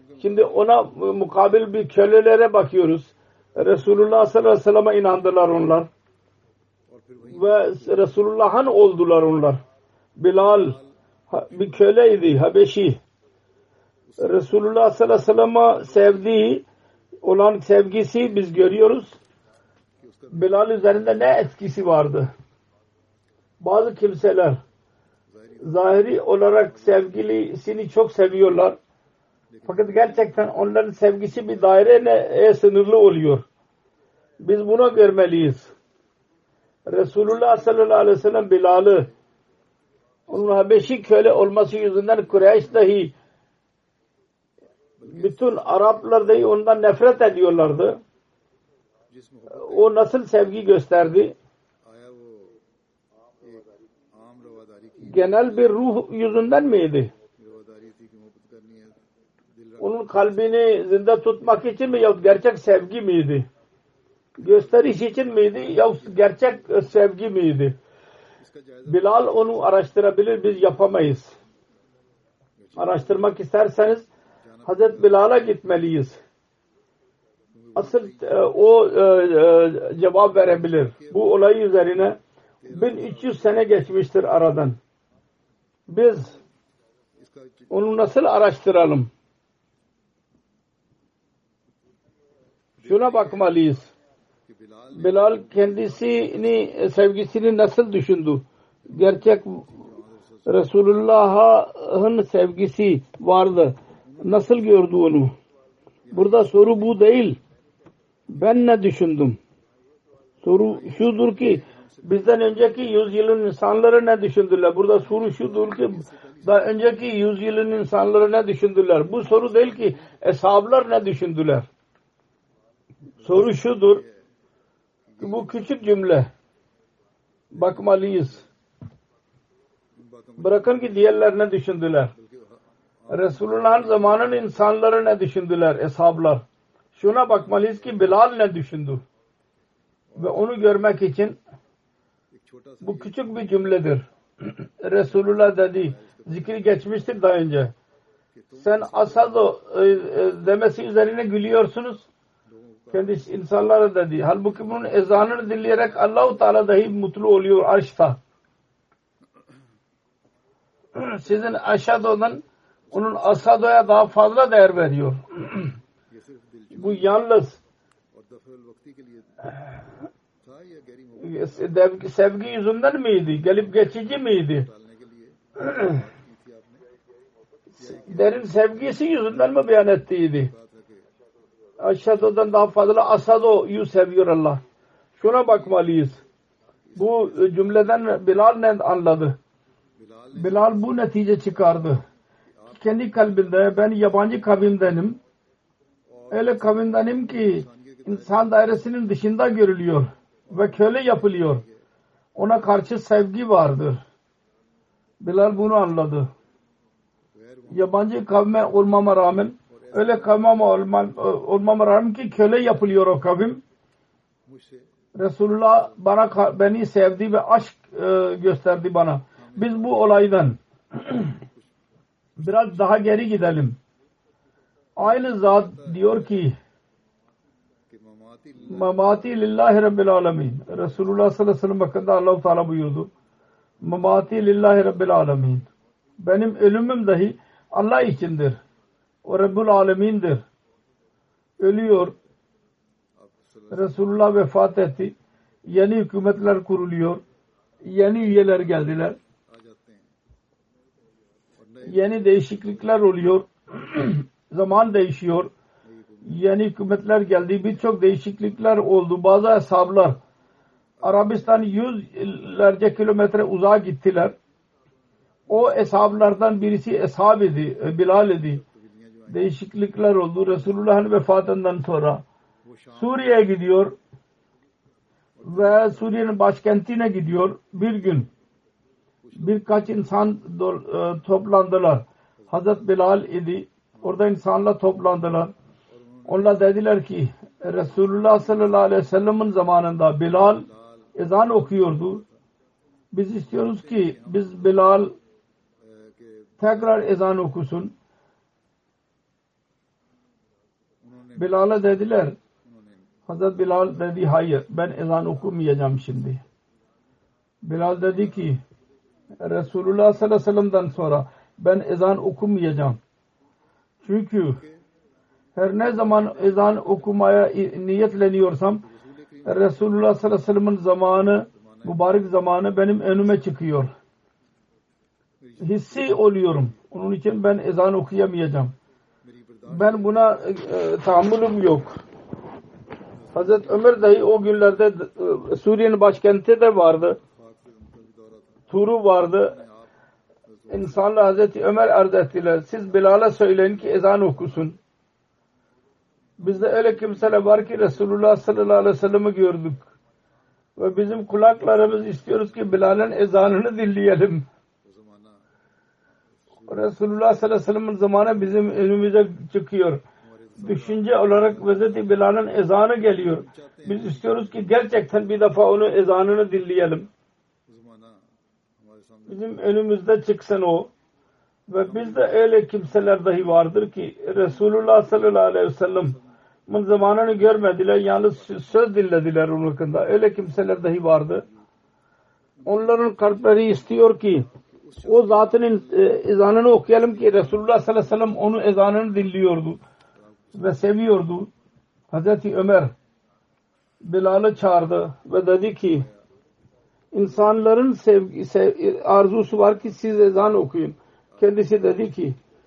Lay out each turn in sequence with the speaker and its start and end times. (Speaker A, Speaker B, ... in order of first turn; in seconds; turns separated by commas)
Speaker A: 0.2-5.9, Speaker A: 7.3-9.6, Speaker A: 10.2-10.8, Speaker A: 11.3-13.0, Speaker A: 14.2-16.6, Speaker A: 17.2-19.1, Speaker A: 20.3-22.3, Speaker A: 23.6-24.6, Speaker A: 25.6-28.8, Speaker A: 29.6-33.4, Speaker A: 34.4-35.7, Speaker A: 36.9-39.1, Speaker A: 40.3-43.1, Speaker A: 45.1-48.0, Speaker A: 49.5-51.3, Speaker A: 55.0-57.1, Speaker A: 59.8-63.5, Speaker A: 64.4-67.8, Speaker A: 68.8-71.3, Speaker A: 72.8-74.0, Speaker A: 74.7-76.2, Speaker A: 77.8-82.2, Speaker A: 82.7-84.8, Speaker A: 85.9-86.4, Speaker A: 87.7-89.1, Speaker A: 92.8-93.9, Speaker A: 95.0-99.7, Speaker A: 100.5-105.3, Speaker A: 106.1-107.4, Speaker A: 108.3-109.4, Speaker A: 110.4-121.7, Speaker A: 123.2-124.0, Speaker A: 125.2-126.3, Speaker A: 127.5-128.5, Speaker A: 130.4-132.1, Speaker A: 133.1-136.4, Speaker A: 136.9-139.0, Speaker A: 140.2-141.4, Speaker A: 142.8-147.7, Speaker A: 148.6-152.1, Speaker A: 152.9-158.2, Speaker A: 161.0-165.7, Speaker A: 166.7-167.6, Speaker A: 171.2-174.7, Speaker A: 175.6-176.0, Speaker A: 177.8-180.5, Speaker A: 181.8-184.6, Speaker A: 185.2-186.2, Speaker A: 186.9-189.3, Speaker A: 190.3-192.0, Speaker A: 192.7-195.2, Speaker A: 196.3-201.6, Speaker A: 202.3-204.0, Speaker A: 205.2-206.3, Speaker A: 207.7-213.6, Speaker A: 215.2-221.3, Speaker A: 222.4-223.8, Speaker A: 225.0-226.6, Speaker A: 228.7-233.1, Speaker A: 233.8-235.7, Speaker A: 236.2-238.6, Speaker A: 239.2-240.4, Speaker A: 241.6-242.1, Speaker A: 243.7-245.1, Speaker A: 245.7-247.2, Speaker A: 247.8-249.2, Speaker A: 251.8-255.5, Speaker A: 256.2-260.2, Speaker A: 261.0-264.3, Speaker A: 265.5-268.6, Speaker A: 269.3-272.2, Speaker A: 272.9-273.9, Speaker A: 275.4-278.3, Speaker A: 279.4-285.5, Speaker A: 286.3-292.2, Speaker A: 293.1-295.1, Speaker A: 296.6-297.9, Speaker A: 301.4-302.4, Speaker A: 303.3-306.4, Speaker A: 307.6-308.6, Speaker A: 309.4-313.0, Speaker A: 314.0-314.6, Speaker A: 315.6-318.8, Speaker A: 319.4-323.9, Speaker A: 325.6-328.7, Speaker A: 329.6-331.9, Speaker A: 333.3-337.2, Speaker A: 338.7-339.6, Speaker A: 340.7-344.8, Speaker A: 346.4-349.9, Speaker A: 350.8-354.4, Speaker A: 356.7-360.0, Speaker A: 360.6-367.1, Speaker A: 369.3-370.9, Speaker A: 371.7-376.2, Speaker A: 376.7-381.5, Speaker A: 382.6-384.5, Speaker A: 385.0-389.8, Speaker A: 390.5-391.5, Speaker A: 392.1-392.9, Speaker A: 394.0-396.1, Speaker A: 397.1-402.4